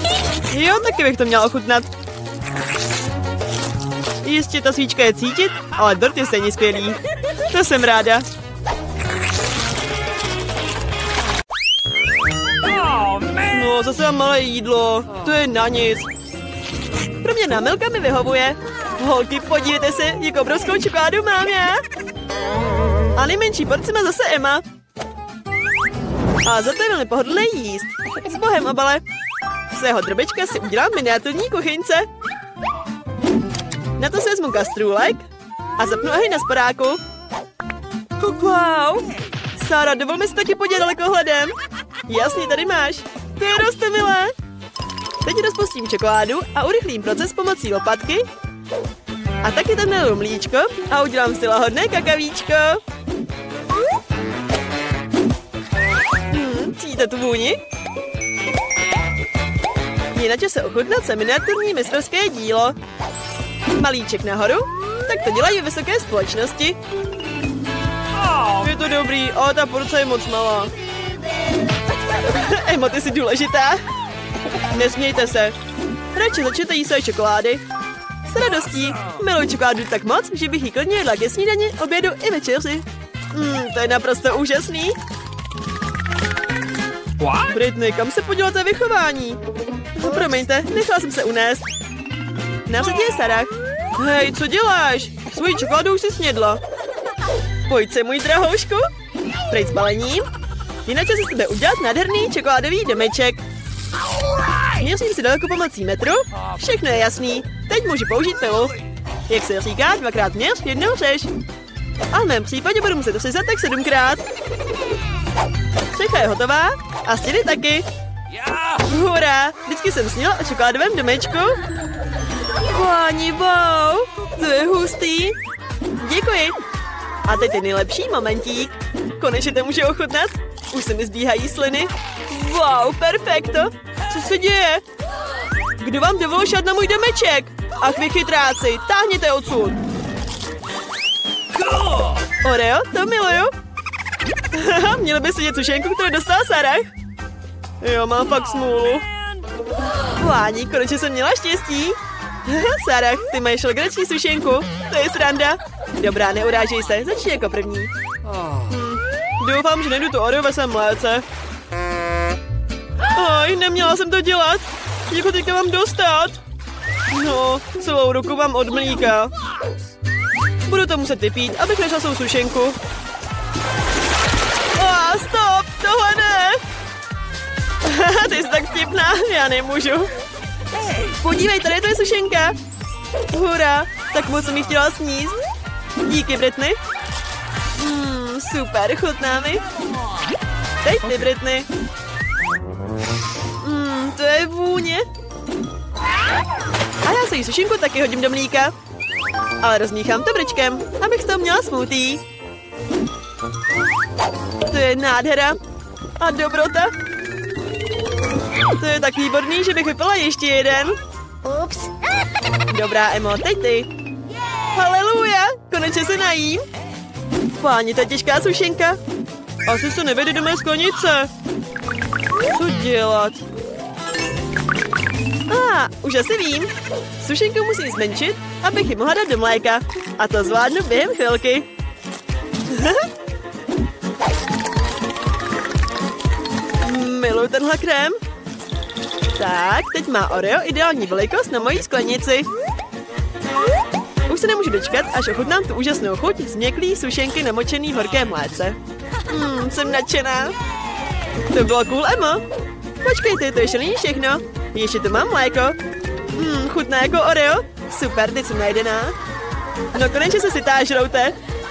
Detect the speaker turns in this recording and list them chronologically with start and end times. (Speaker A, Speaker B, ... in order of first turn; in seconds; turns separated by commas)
Speaker A: 0.5-1.9, Speaker A: 4.2-7.0, Speaker A: 7.5-8.2, Speaker B: 12.6-13.7, Speaker A: 13.5-16.1, Speaker A: 17.2-21.8, Speaker A: 23.1-24.6, Speaker A: 26.4-29.0, Speaker A: 29.7-32.1, Speaker A: 34.0-35.2, Speaker A: 35.8-37.0, Speaker A: 38.2-41.5, Speaker A: 42.1-44.3, Speaker A: 45.2-48.3, Speaker A: 49.4-52.8, Speaker A: 56.3-57.6, Speaker A: 60.1-62.8, Speaker A: 63.7-66.8, Speaker B: 68.1-68.7, Speaker A: 68.6-70.7, Speaker A: 72.2-73.8, Speaker A: 74.7-75.6, Speaker A: 76.1-77.6, Speaker A: 78.2-85.0, Speaker B: 78.4-79.2, Speaker B: 87.2-87.5, Speaker A: 87.5-89.4, Speaker A: 89.9-91.7, Speaker A: 92.7-96.6, Speaker A: 97.7-98.9, Speaker A: 99.5-100.3, Speaker A: 100.8-103.4, Speaker A: 104.7-108.8, Speaker A: 109.3-111.3, Speaker A: 112.1-114.2, Speaker A: 115.9-117.9, Speaker B: 118.3-118.9, Speaker A: 118.8-121.6, Speaker A: 122.6-125.4, Speaker A: 126.0-126.6, Speaker A: 127.2-134.8, Speaker A: 135.8-139.8, Speaker B: 141.5-142.2, Speaker A: 142.4-143.5, Speaker A: 144.5-146.9, Speaker A: 147.8-149.1, Speaker A: 150.1-157.9, Speaker B: 158.2-158.7, Speaker A: 158.7-161.2, Speaker A: 163.1-166.4, Speaker A: 167.1-169.3, Speaker A: 170.7-172.8, Speaker A: 174.7-176.6, Speaker A: 177.8-180.1, Speaker B: 180.7-181.2, Speaker A: 181.2-182.6, Speaker A: 183.3-185.4, Speaker A: 186.1-186.8, Speaker A: 187.8-189.6, Speaker A: 190.8-191.7, Speaker A: 193.6-195.1, Speaker A: 197.0-198.7, Speaker A: 199.6-202.2, Speaker A: 204.7-205.6, Speaker A: 206.2-206.9, Speaker A: 208.8-211.0, Speaker A: 212.7-213.9, Speaker A: 214.7-216.7, Speaker A: 217.6-219.0, Speaker A: 219.7-221.3, Speaker A: 222.5-223.4, Speaker A: 225.5-231.7, Speaker A: 232.7-233.1, Speaker A: 236.8-238.2, Speaker A: 239.4-242.5, Speaker A: 244.3-248.8, Speaker A: 249.3-250.6, Speaker A: 251.5-252.4, Speaker A: 253.0-255.8, Speaker A: 256.3-259.1, Speaker A: 259.9-261.4